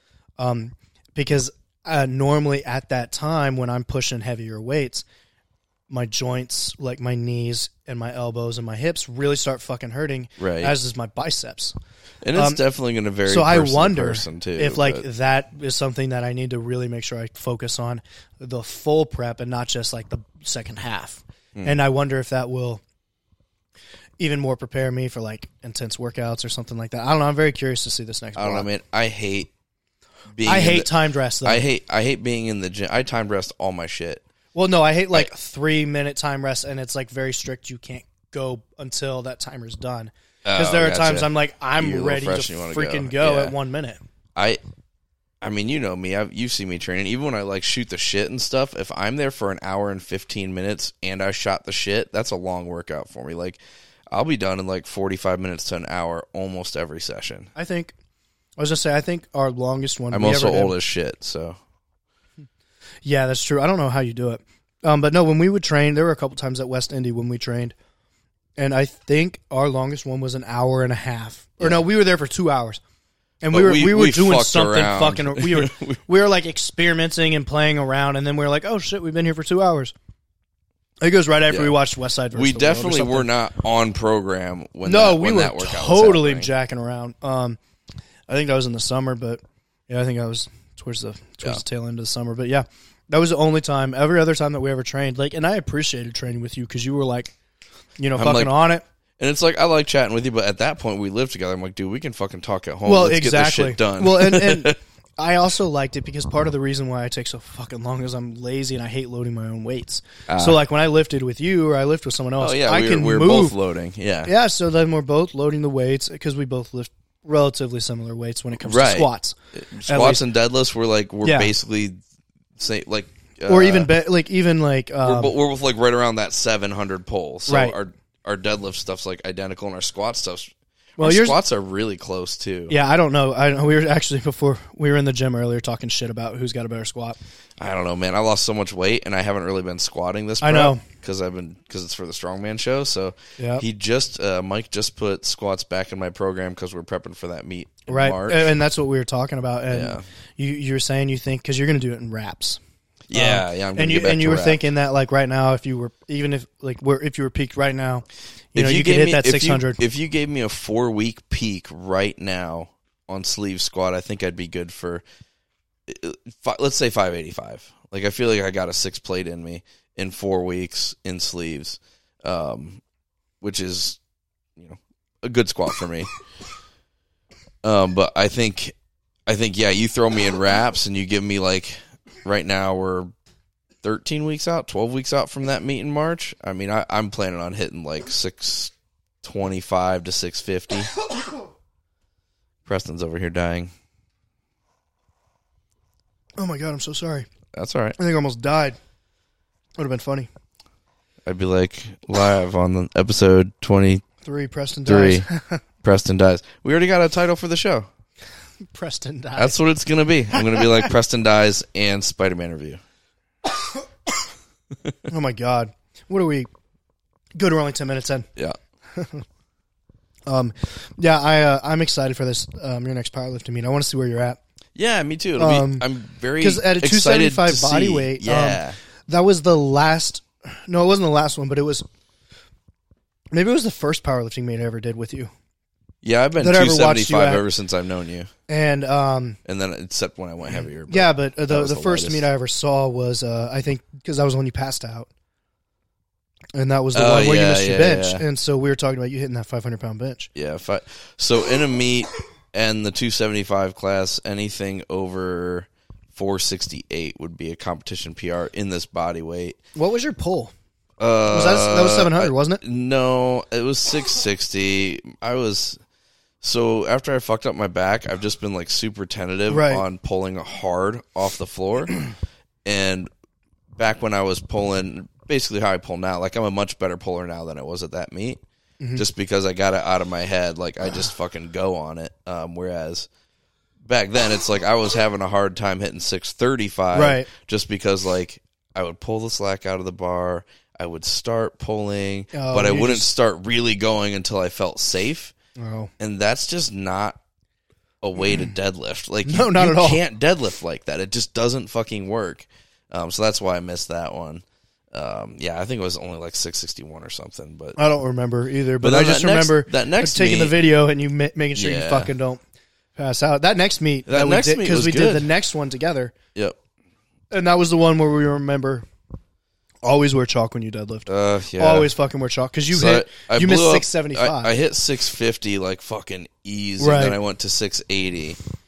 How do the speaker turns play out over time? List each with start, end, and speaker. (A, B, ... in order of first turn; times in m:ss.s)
0:00.4-0:05.0 A
0:05.9-0:11.7 A
0:10.4-0:10.7 B
0:12.2-0:15.0 B
0:12.3-0:12.6 A
0:13.2-0:22.8 A
0:24.2-0:28.7 A
0:28.4-0:29.5 B
0:30.3-0:30.9 B
0:30.4-0:31.6 A
0:31.4-0:34.2 B
0:34.5-0:44.0 A
0:40.4-0:43.5 B
0:45.4-0:53.6 B
0:54.1-0:57.5 B
0:57.5-0:57.9 A
0:58.6-1:00.7 A
1:00.1-1:01.6 B
1:03.0-1:07.7 A
1:08.6-1:12.8 A
1:13.4-1:19.9 A
1:13.5-1:16.0 B
1:21.0-1:23.3 A
1:21.5-1:21.8 B
1:22.3-1:26.5 B
1:24.8-1:27.6 A
1:28.3-1:37.3 A
1:38.0-1:38.8 A
1:38.2-1:38.6 B
1:39.2-1:44.8 B
1:42.8-1:53.5 A
1:50.3-1:50.6 B
1:52.4-1:54.3 B
1:54.2-1:59.3 A
1:58.6-2:02.0 B
1:59.8-2:00.2 A
2:01.2-2:01.5 A
2:02.6-2:03.9 B
2:03.4-2:05.3 A
2:05.0-2:12.7 B
2:07.5-2:07.8 A
2:11.0-2:11.4 A
2:12.7-2:17.2 A
2:17.6-2:28.5 B
2:20.4-2:20.8 A
2:23.4-2:23.6 A
2:27.9-2:32.6 A
2:29.7-2:30.0 B
2:33.1-2:34.6 B
2:33.1-2:38.0 A
2:38.5-2:45.0 B
2:38.6-2:39.8 A
2:45.9-2:52.8 B
2:53.4-2:54.0 B
2:54.6-2:56.1 B
2:57.6-2:58.8 B
2:59.3-3:03.1 B
3:03.8-3:10.9 B
3:12.6-3:13.7 B
3:16.4-3:17.2 A
3:17.5-3:18.0 B
3:18.0-3:18.8 A
3:19.8-3:20.3 A
3:21.2-3:24.0 B
3:24.2-3:25.6 A
3:24.8-3:25.2 B
3:25.8-3:27.9 B
3:28.7-3:29.6 A
3:29.4-3:32.8 B
3:35.1-3:36.5 A
3:37.4-3:38.3 A
3:38.9-3:39.2 A
3:40.3-3:44.4 A
3:44.8-3:48.8 B
3:45.4-3:45.9 A
3:46.4-3:51.8 A
3:53.3-3:55.3 A
3:56.0-3:58.3 B
3:56.4-3:57.4 A
3:58.5-3:59.4 A
3:59.4-4:02.3 B
4:00.9-4:05.1 A
4:06.5-4:10.3 A
4:06.9-4:08.2 B
4:10.3-4:19.6 B
4:19.7-4:20.5 A
4:21.0-4:25.8 B
4:21.3-4:22.6 A
4:26.4-4:32.0 B
4:29.5-4:29.8 A
4:32.6-4:33.1 B
4:33.7-4:38.4 B
4:39.0-4:43.1 B
4:43.8-4:55.3 B
4:46.9-4:47.3 A
4:52.3-4:53.1 A
4:55.6-4:55.9 A
4:56.0-4:57.2 B
4:58.0-5:07.8 B
4:59.2-5:00.0 A
5:07.8-5:12.4 A
5:08.8-5:10.6 B
5:11.6-5:12.1 B
5:13.0-5:16.1 A
5:14.1-5:15.3 B
5:17.3-5:18.8 A
5:19.8-5:24.5 A
5:21.1-5:21.9 B
5:22.7-5:28.4 B
5:26.8-5:27.2 A